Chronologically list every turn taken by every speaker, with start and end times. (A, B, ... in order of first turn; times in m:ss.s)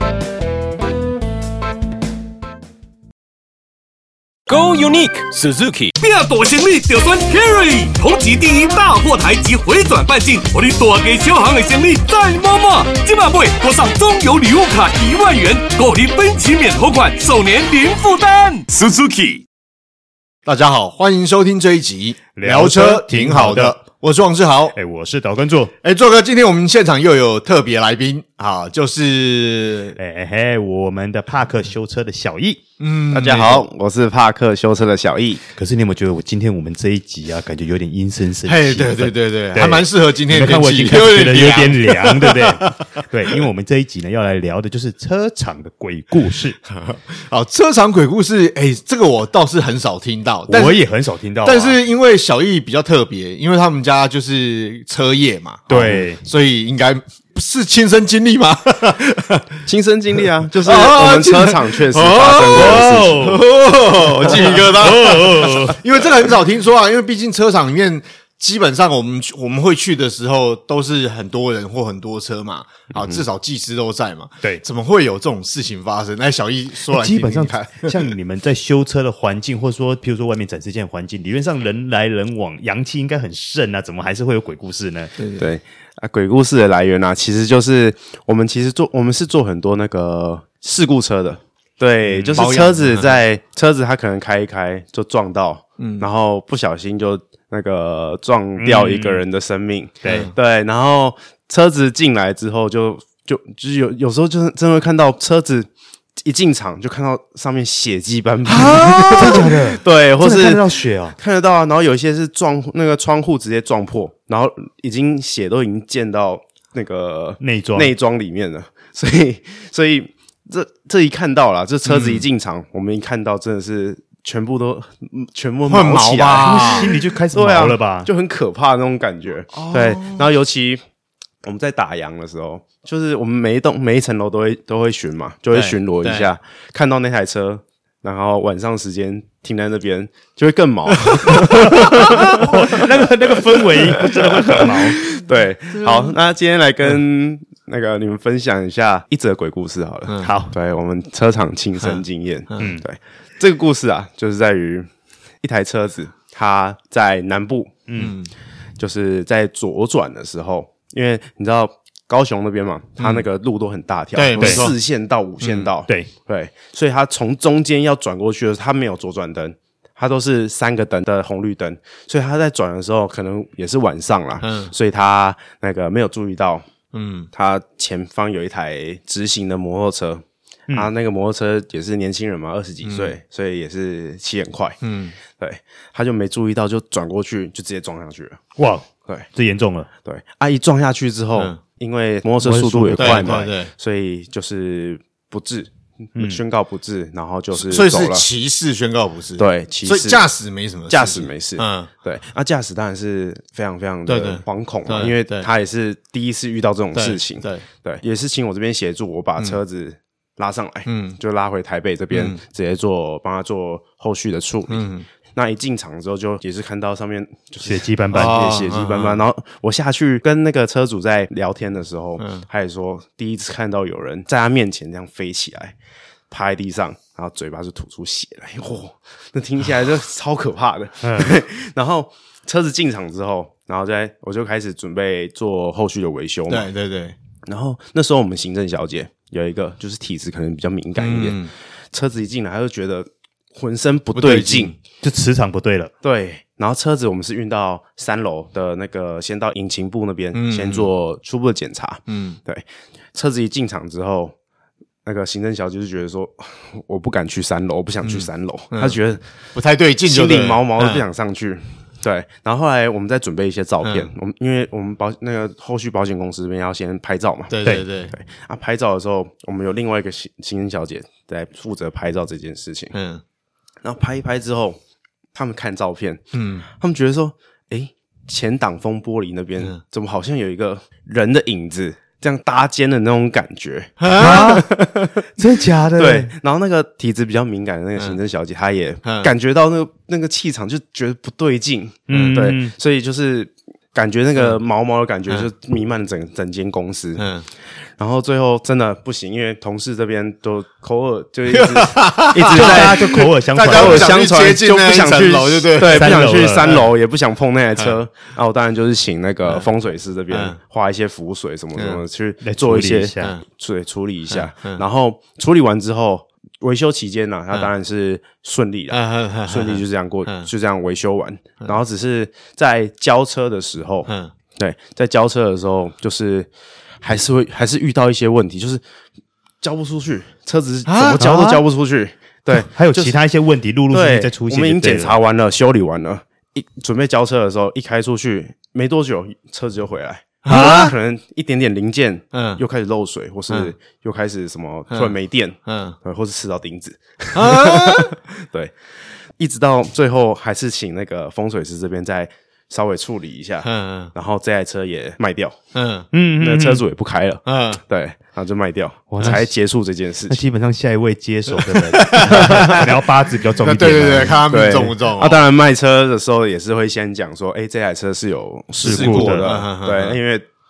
0:04.5-0:19.4 A
0:20.5-0:24.8 B
0:22.4-0:23.8 C
0:24.7-0:25.7 C
0:25.8-0:30.0 B
0:30.0-0:32.6 C
0:32.8-0:33.7 B
0:33.1-0:35.4 D
0:35.6-0:46.6 C
0:38.4-0:42.8 B
0:46.7-0:50.8 B
0:50.5-0:51.8 C
0:51.4-0:59.5 B
0:55.7-0:56.2 C
0:55.7-0:56.0 D
0:59.6-1:03.3 D
1:00.6-1:18.1 B
1:02.5-1:03.5 C
1:04.1-1:05.8 C
1:12.9-1:13.2 D
1:16.9-1:25.1 C
1:25.2-1:25.5 B
1:25.4-2:10.8 D
1:32.0-1:32.5 C
1:32.3-1:33.1 B
1:35.8-1:36.1 B
1:38.6-1:39.2 C
1:40.0-1:40.3 C
1:40.1-1:40.3 B
1:48.5-1:51.2 C
1:48.9-1:49.5 B
1:57.4-1:57.9 C
2:01.9-2:02.2 B
2:05.7-2:07.0 B
2:06.4-2:08.1 C
2:09.5-2:10.3 B
2:11.4-2:22.5 D
2:15.5-2:16.3 B
2:21.5-2:25.0 C
2:23.9-2:34.9 D
2:30.2-2:30.5 C
2:31.8-2:32.6 B
2:32.6-2:32.8 C
2:35.4-2:37.8 D
2:37.9-2:38.1 C
2:38.0-2:38.3 B
2:38.8-2:56.7 D
2:43.0-2:43.3 B
2:44.1-2:44.8 B
2:44.4-2:44.7 C
2:45.4-2:45.7 B
2:54.4-2:54.7 B
2:56.9-2:57.3 B
2:57.3-3:04.8 D
3:02.8-3:03.2 B
3:04.8-3:05.2 B
3:05.4-3:08.4 D
3:08.6-3:09.9 C
3:10.0-3:18.3 D
3:12.4-3:13.4 C
3:13.0-3:13.7 B
3:16.2-3:16.4 C
3:17.6-3:21.9 B
3:19.4-3:20.2 D
3:20.9-3:45.8 D
3:24.1-3:25.5 B
3:26.9-3:27.6 B
3:30.9-3:31.2 B
3:32.1-3:32.4 B
3:34.7-3:35.1 B
3:37.6-3:38.5 C
3:38.1-3:39.2 B
3:42.2-3:42.4 B
3:46.3-3:56.7 D
3:51.0-3:51.3 C
3:56.5-3:57.2 B
3:57.5-4:01.4 D
4:01.0-4:01.5 B
4:01.9-4:04.8 D
4:04.2-4:04.8 B
4:05.0-4:05.9 C
4:06.0-4:14.4 D
4:10.3-4:10.9 B
4:12.1-4:12.4 B
4:15.0-4:19.2 D
4:18.0-4:19.0 B
4:19.6-4:21.0 B
4:20.1-4:33.0 D
4:23.8-4:24.1 B
4:27.5-4:28.1 B
4:32.9-4:33.2 B
4:33.8-4:34.8 D
4:35.3-4:45.1 D
4:36.3-4:36.7 B
4:44.0-4:44.5 B
4:44.2-4:44.7 C
4:45.3-4:46.3 C
4:46.0-4:57.3 D
4:49.0-4:49.3 B
4:52.1-4:52.8 C
4:52.1-4:52.4 B
4:57.2-4:57.5 B
4:58.0-5:03.0 D
5:01.5-5:06.9 B
5:02.5-5:04.2 C
5:03.7-5:26.5 D
5:05.8-5:06.8 C
5:10.3-5:10.6 B
5:11.8-5:12.0 B
5:12.4-5:13.4 C
5:14.3-5:14.8 B
5:18.9-5:20.5 B
5:24.1-5:24.3 B
5:27.0-5:28.8 D
5:29.6-5:33.2 D
5:30.9-5:31.2 B
5:31.2-5:31.6 C
5:32.5-5:35.2 C
5:33.9-5:48.8 D
5:40.4-5:41.0 B
5:40.5-5:40.9 C
5:42.3-5:42.6 B
5:44.9-5:45.2 B
5:45.7-5:46.0 B
5:47.4-5:48.2 B
5:49.4-5:55.6 D
5:53.6-5:54.1 B
5:55.7-5:56.1 B
5:56.1-5:56.8 C
5:56.4-6:00.4 D
5:57.5-5:57.8 B
5:59.1-5:59.5 C
6:00.3-6:04.4 C
6:01.5-6:02.9 B
6:02.3-6:02.8 D
6:03.6-6:05.4 B
6:04.5-6:10.5 D
6:08.8-6:09.5 C
6:08.8-6:10.2 B